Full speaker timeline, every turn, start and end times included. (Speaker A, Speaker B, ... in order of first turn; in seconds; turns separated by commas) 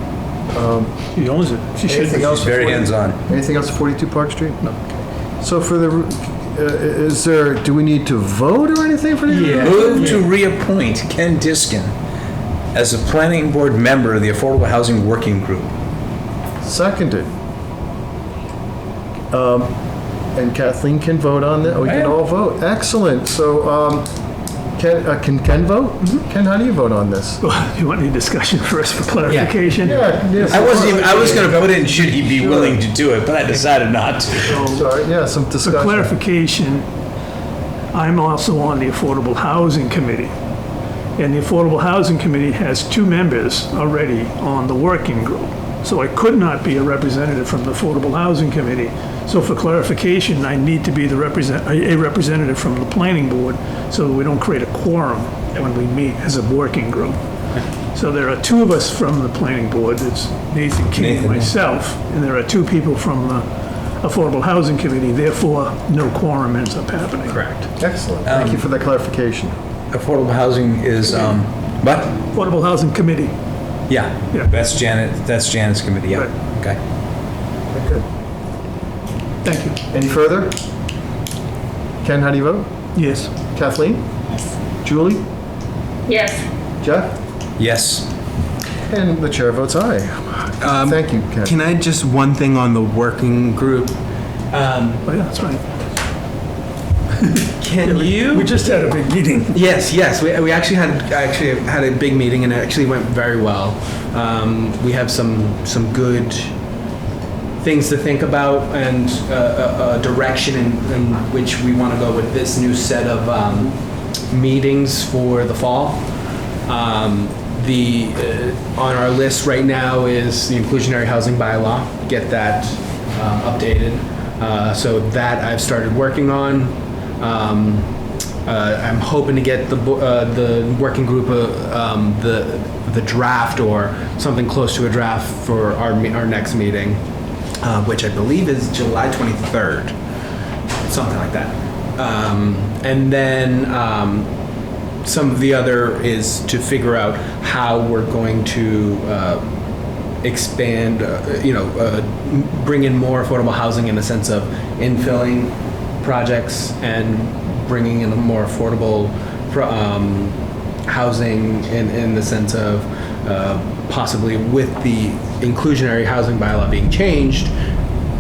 Speaker A: 0.5-0.9, Speaker B: 1.1-2.8, Speaker A: 1.9-10.2, Speaker C: 2.1-3.2, Speaker D: 9.3-10.2, Speaker C: 9.6-11.9, Speaker C: 12.7-15.7, Speaker A: 16.6-17.3, Speaker A: 19.3-19.7, Speaker A: 20.3-24.1, Speaker C: 21.8-22.2, Speaker A: 24.8-27.4, Speaker B: 27.4-31.7, Speaker D: 29.3-29.5, Speaker A: 29.8-31.5, Speaker C: 30.5-34.6, Speaker B: 34.5-34.9, Speaker A: 34.6-36.1, Speaker B: 35.6-36.9, Speaker B: 37.9-40.3, Speaker B: 41.2-57.2, Speaker B: 57.9-63.5, Speaker C: 60.9-61.5, Speaker B: 64.0-67.5, Speaker D: 67.3-67.6, Speaker A: 67.8-69.5, Speaker C: 68.2-68.6, Speaker C: 69.9-72.2, Speaker B: 72.3-73.3, Speaker C: 73.9-76.8, Speaker A: 77.7-78.0, Speaker B: 79.4-79.8, Speaker A: 79.9-80.6, Speaker A: 82.0-82.7, Speaker B: 82.9-83.3, Speaker A: 83.5-84.0, Speaker A: 84.8-85.2, Speaker A: 86.8-87.1, Speaker C: 87.6-88.1, Speaker A: 88.9-91.5, Speaker D: 90.6-94.0, Speaker D: 94.5-95.0, Speaker B: 95.0-95.6, Speaker B: 97.2-99.6, Speaker D: 97.6-98.5, Speaker D: 99.5-106.5, Speaker D: 107.6-113.8, Speaker D: 114.3-116.0, Speaker D: 116.7-127.9, Speaker D: 128.4-137.0, Speaker D: 137.6-139.9, Speaker D: 140.8-144.3, Speaker D: 145.0-149.5, Speaker D: 150.2-167.5